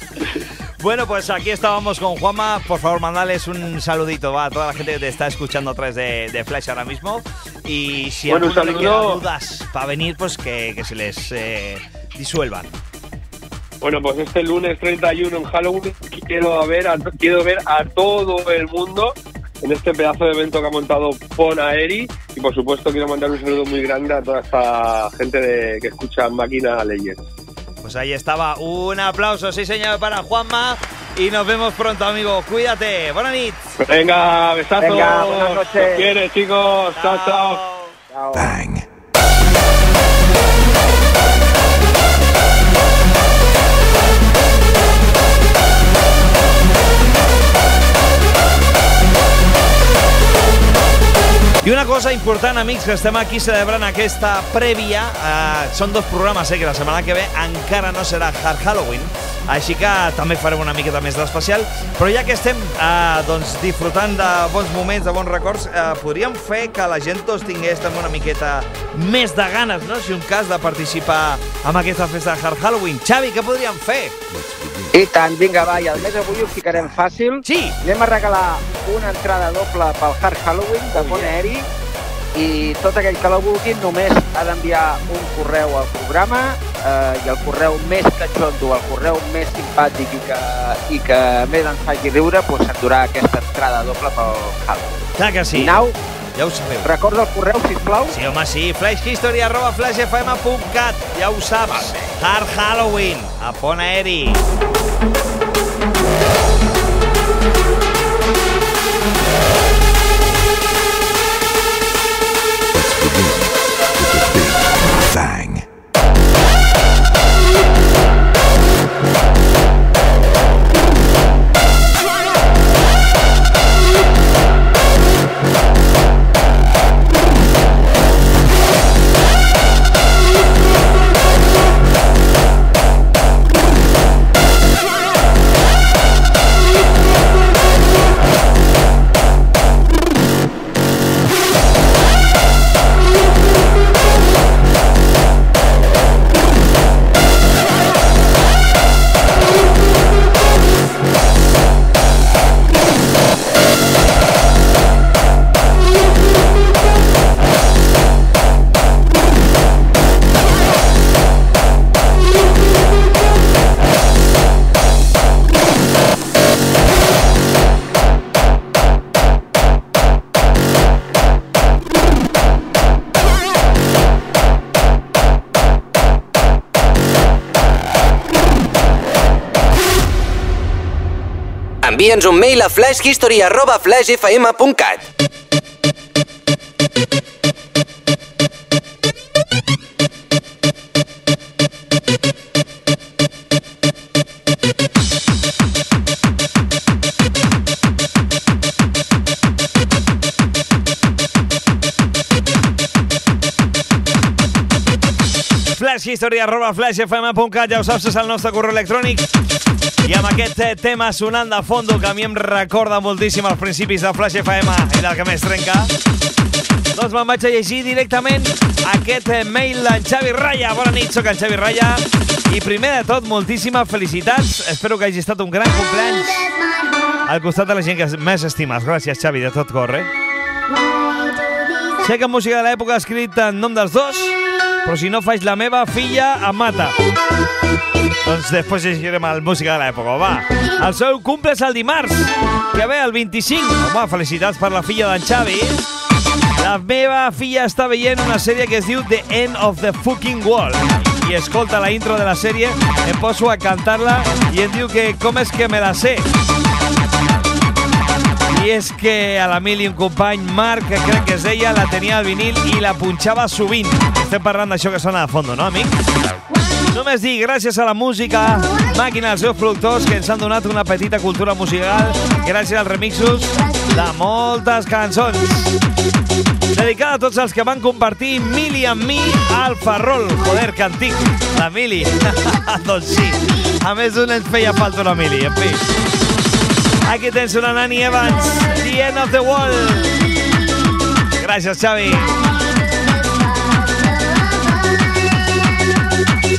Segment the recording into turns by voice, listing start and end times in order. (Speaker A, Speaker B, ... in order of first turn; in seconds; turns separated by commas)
Speaker A: 0.8-12.7, Speaker B: 8.3-9.2, Speaker B: 13.8-27.2, Speaker A: 27.8-33.6, Speaker B: 33.8-37.6, Speaker C: 34.8-36.1, Speaker A: 36.9-37.9, Speaker C: 38.1-38.5, Speaker A: 51.6-74.2, Speaker C: 74.9-81.7, Speaker A: 77.4-77.8, Speaker B: 81.0-81.3, Speaker C: 82.3-95.0, Speaker A: 95.2-95.8, Speaker C: 95.5-96.0, Speaker A: 96.3-96.9, Speaker C: 96.8-98.1, Speaker A: 98.1-104.4, Speaker D: 181.8-185.1, Speaker A: 205.8-209.3, Speaker A: 210.1-215.9, Speaker A: 216.9-226.5, Speaker A: 227.3-230.1, Speaker A: 232.0-236.9, Speaker A: 238.2-245.9, Speaker A: 246.6-256.3, Speaker A: 258.5-265.9, Speaker A: 266.9-275.7, Speaker A: 276.7-285.9, Speaker A: 287.1-290.2, Speaker A: 291.4-292.3